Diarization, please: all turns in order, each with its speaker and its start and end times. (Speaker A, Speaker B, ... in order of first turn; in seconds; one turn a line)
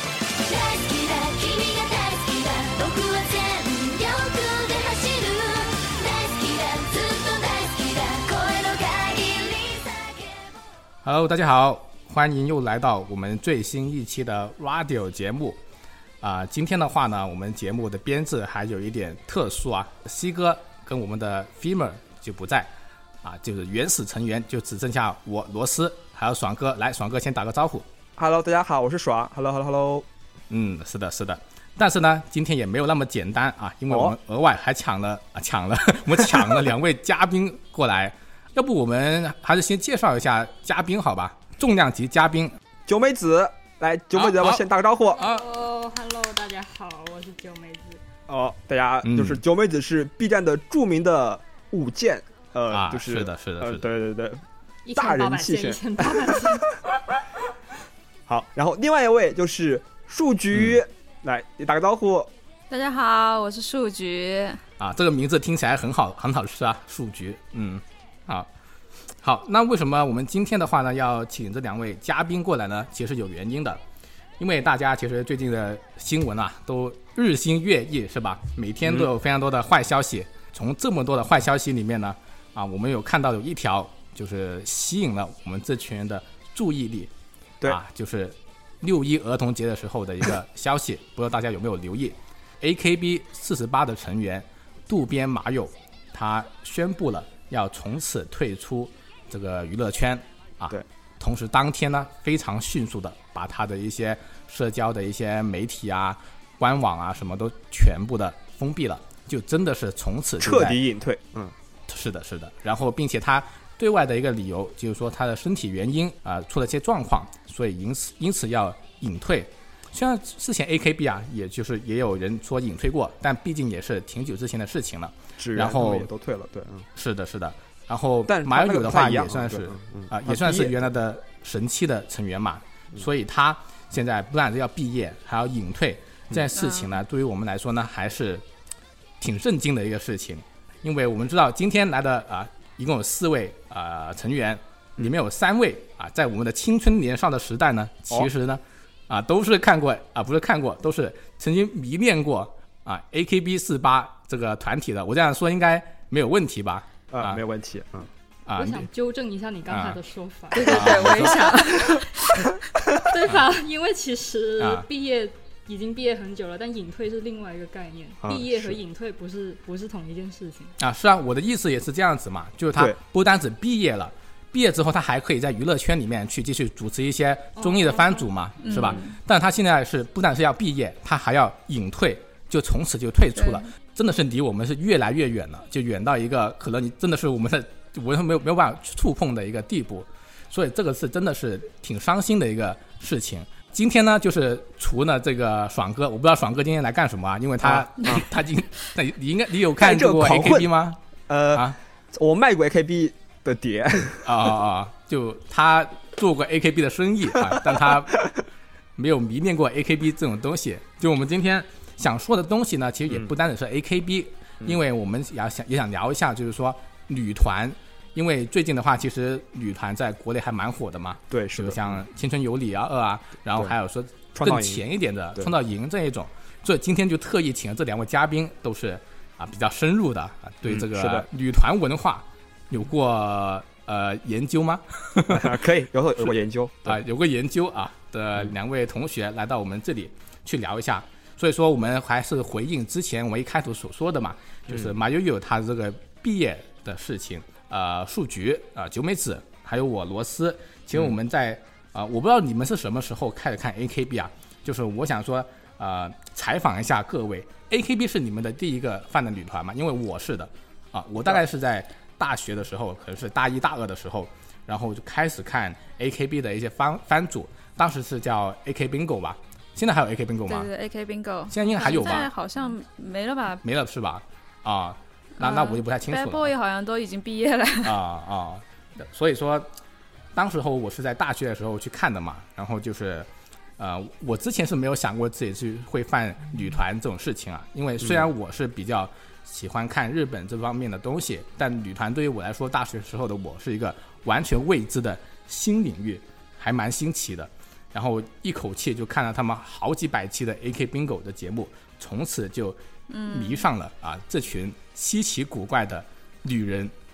Speaker A: 0.4-10.6
Speaker B: 11.0-15.6
Speaker B: 16.2-22.7
Speaker B: 23.2-27.9
Speaker C: 28.2-30.1
Speaker B: 30.5-42.6
Speaker C: 33.9-34.1
Speaker C: 42.9-45.2
Speaker B: 44.1-44.6
Speaker D: 45.1-48.0
Speaker B: 45.2-45.4
Speaker C: 48.3-54.4
Speaker B: 49.0-49.4
Speaker B: 52.7-53.9
Speaker D: 54.9-56.7
Speaker C: 55.0-56.4
Speaker C: 58.3-62.3
Speaker B: 60.5-60.8
Speaker E: 62.7-64.6
Speaker B: 64.8-68.5
Speaker B: 69.2-73.8
Speaker B: 74.4-87.1
Speaker B: 87.6-110.8
Speaker C: 110.4-111.5
Speaker B: 111.9-126.1
Speaker C: 125.4-126.9
Speaker B: 127.0-138.4
Speaker C: 128.3-130.9
Speaker E: 136.5-137.0
Speaker B: 139.2-157.4
Speaker C: 157.1-158.1
Speaker B: 158.5-158.9
Speaker D: 158.6-162.0
Speaker B: 159.7-160.0
Speaker E: 160.5-162.5
Speaker B: 160.6-161.5
Speaker D: 163.1-170.8
Speaker B: 164.6-164.9
Speaker C: 168.2-168.8
Speaker B: 170.8-201.0
Speaker D: 177.6-178.3
Speaker E: 178.6-179.2
Speaker E: 183.4-183.7
Speaker C: 197.6-198.3
Speaker C: 199.8-200.7
Speaker C: 201.3-204.3
Speaker B: 204.2-208.2
Speaker B: 209.0-235.6
Speaker C: 221.3-222.0
Speaker C: 224.4-224.8
Speaker C: 230.7-231.3
Speaker C: 235.3-237.0
Speaker B: 236.8-270.7
Speaker E: 270.5-273.6
Speaker B: 271.5-272.3
Speaker B: 273.6-276.5
Speaker E: 275.4-278.0
Speaker B: 277.8-279.7
Speaker B: 280.4-306.9
Speaker E: 303.1-303.7